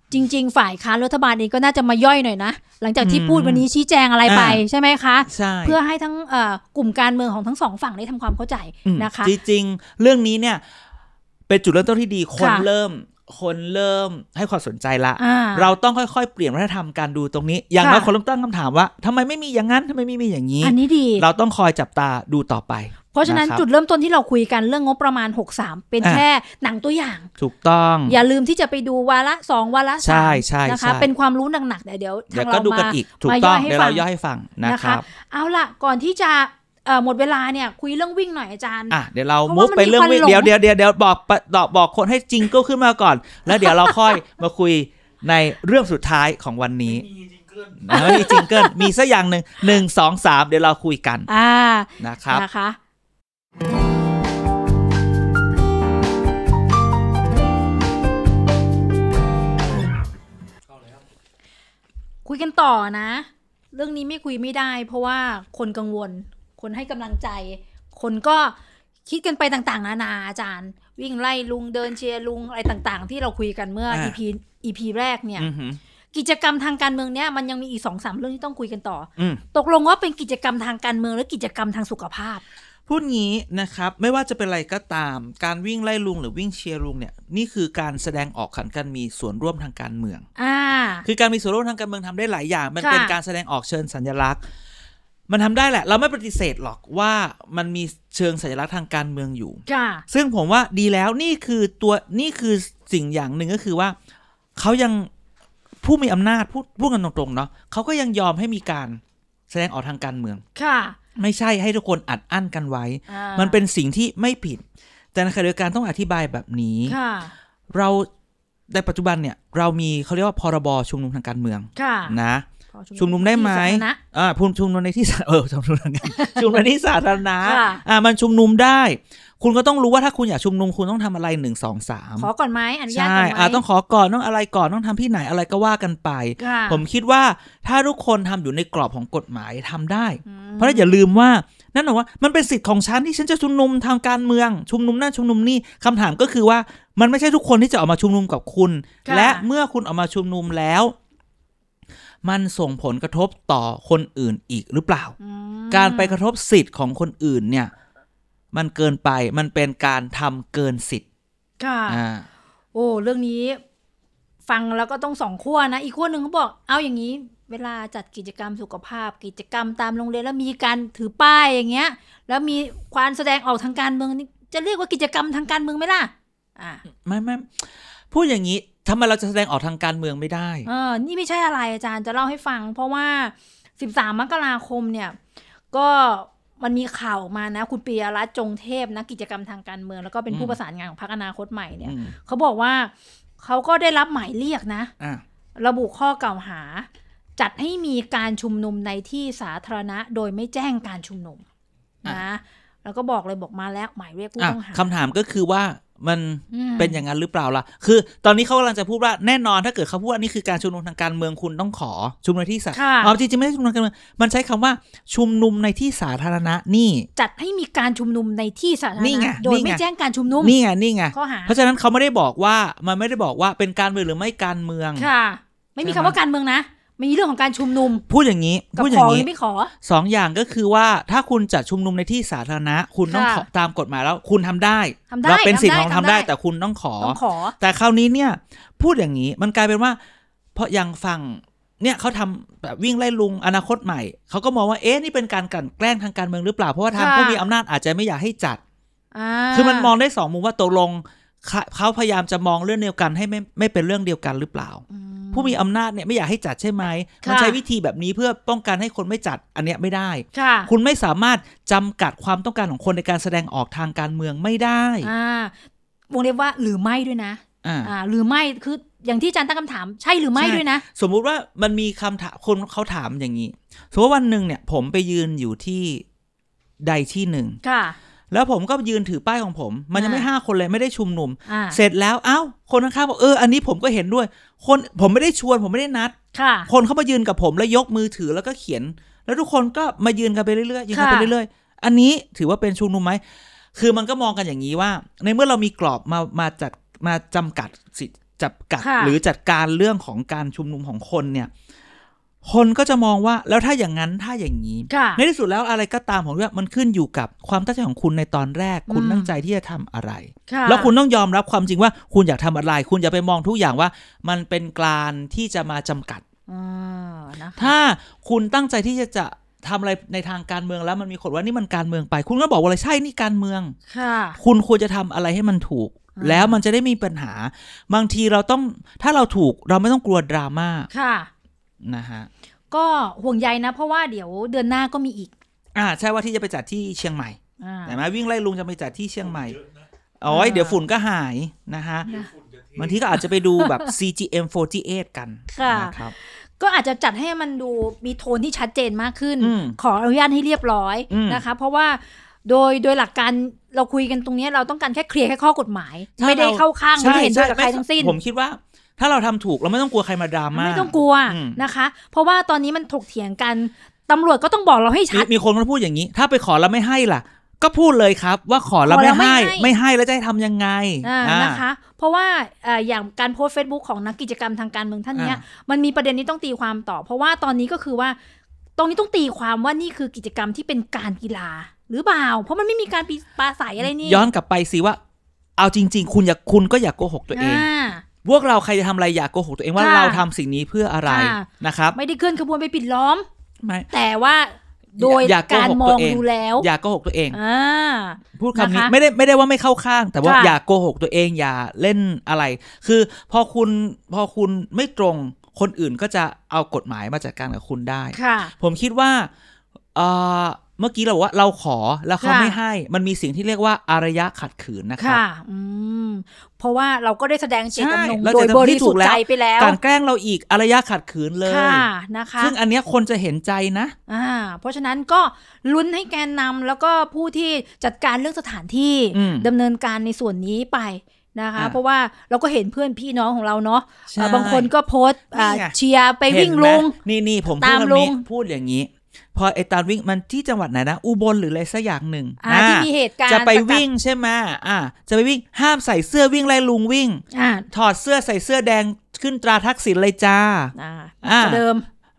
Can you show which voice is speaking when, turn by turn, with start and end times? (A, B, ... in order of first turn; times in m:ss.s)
0:00.1-0:09.3 A
0:03.0-0:03.7 B
0:04.2-0:04.6 B
0:05.3-0:05.8 B
0:08.8-0:10.6 B
0:11.5-0:23.6 B
0:12.4-0:12.7 A
0:15.2-0:15.7 A
0:17.8-0:18.1 A
0:20.6-0:21.2 A
0:23.1-0:27.3 A
0:27.4-0:28.2 B
0:28.1-0:34.0 A
0:30.0-0:31.1 B
0:32.3-0:35.0 B
0:34.6-0:40.5 A
0:38.9-0:47.1 B
0:43.5-0:44.2 A
0:47.0-0:48.0 C
0:47.8-0:51.3 B
0:47.9-0:48.9 A
0:51.3-0:52.8 A
0:52.0-0:52.4 B
1:00.7-1:01.0 C
1:02.2-1:15.5 A
1:13.9-1:14.2 B
1:15.4-1:15.8 B
1:16.1-1:22.4 A
1:22.9-1:30.2 B
1:30.4-1:31.1 A
1:31.0-1:34.4 B
1:32.8-1:33.2 A
1:35.3-1:44.0 B
1:39.7-1:40.0 A
1:44.6-1:45.1 B
1:45.8-1:50.4 B
1:50.6-1:51.0 A
1:51.2-1:54.6 B
1:53.1-1:53.6 A
1:55.1-1:57.0 B
1:56.9-1:57.3 A
1:57.7-1:58.1 B
1:58.7-2:02.5 B
2:01.8-2:02.2 A
2:02.7-2:04.0 A
2:03.0-2:12.3 B
2:06.1-2:06.6 A
2:07.4-2:07.8 A
2:12.2-2:13.6 A
2:12.9-2:30.9 B
2:16.4-2:16.8 A
2:20.2-2:21.0 A
2:29.0-2:29.5 A
2:32.2-2:35.2 B
2:35.2-2:36.2 A
2:35.7-2:37.7 B
2:38.5-2:41.0 B
2:41.6-2:42.0 A
2:41.9-2:42.3 B
2:42.7-2:43.6 A
2:44.5-2:56.8 A
2:56.9-3:00.7 B
3:00.7-3:05.2 A
3:05.7-3:14.9 A
3:10.3-3:10.6 B
3:11.8-3:12.2 B
3:15.6-3:21.4 A
3:22.0-3:24.9 A
3:24.4-3:37.1 B
3:26.5-3:27.0 A
3:32.7-3:33.2 A
3:37.2-3:40.6 A
3:39.0-3:39.8 B
3:40.4-3:45.1 B
3:41.1-3:41.5 A
3:45.0-3:48.0 A
3:45.8-3:46.2 B
3:48.1-3:49.3 B
3:48.8-3:49.7 A
3:49.8-4:00.0 B
3:53.1-3:53.5 A
3:55.1-3:56.3 A
3:57.0-3:57.6 A
4:00.6-4:08.6 B
4:06.9-4:07.4 A
4:09.1-4:09.9 A
4:09.5-4:25.1 B
4:14.9-4:15.6 A
4:17.2-4:17.6 A
4:20.3-4:20.7 A
4:25.0-4:25.6 A
4:26.1-4:30.8 A
4:27.6-4:27.9 B
4:30.4-4:36.0 B
4:36.8-4:37.6 B
4:37.6-4:38.0 A
4:38.3-4:46.2 B
4:39.9-4:40.3 A
4:41.5-4:41.8 A
4:46.3-4:46.7 A
4:46.7-4:53.2 B
4:50.9-4:51.3 A
4:53.8-5:01.5 B
4:58.8-4:59.2 A
5:02.4-5:16.2 B
5:04.9-5:05.2 A
5:08.9-5:09.3 A
5:10.5-5:10.9 A
5:16.5-5:17.8 A
5:17.6-5:23.8 B
5:23.9-5:24.4 A
5:24.4-5:30.9 B
5:26.2-5:26.6 A
5:30.9-5:31.3 A
5:31.8-5:32.3 B
5:32.7-5:35.3 A
5:35.8-5:39.6 B
5:37.6-5:38.0 A
5:39.2-5:39.9 C
5:40.2-5:42.1 B
5:40.3-5:40.8 A
5:42.0-5:43.4 C
5:42.8-5:46.1 B
5:43.6-5:43.9 A
5:45.5-5:58.2 A
5:49.4-5:49.8 B
5:51.1-5:51.4 B
5:56.2-6:01.6 B
6:00.5-6:05.3 A
6:05.1-6:11.6 B
6:08.8-6:09.7 A
6:11.0-6:18.2 A
6:15.1-6:15.4 B
6:18.8-6:24.3 A
6:23.8-6:25.0 B
6:25.6-6:27.7 B
6:27.3-6:28.0 A
6:28.2-6:32.0 B
6:29.8-6:30.2 A
6:31.1-6:33.3 A
6:33.6-6:33.9 B
6:33.9-6:36.7 A
6:35.0-6:37.4 B
6:37.3-6:38.9 A
6:38.4-6:49.3 B
6:40.2-6:40.6 A
6:48.1-6:48.5 A
6:50.0-6:55.2 B
6:52.2-6:52.6 A
6:55.0-6:59.8 A
6:57.7-7:01.9 B
7:01.5-7:02.6 A
7:02.4-7:04.0 B
7:04.1-7:17.0 A
7:09.1-7:09.5 B
7:14.1-7:14.7 B
7:15.3-7:15.8 B
7:16.3-7:31.6 B
7:17.6-7:18.2 A
7:22.4-7:23.8 A
7:27.3-7:27.7 A
7:30.8-7:31.9 A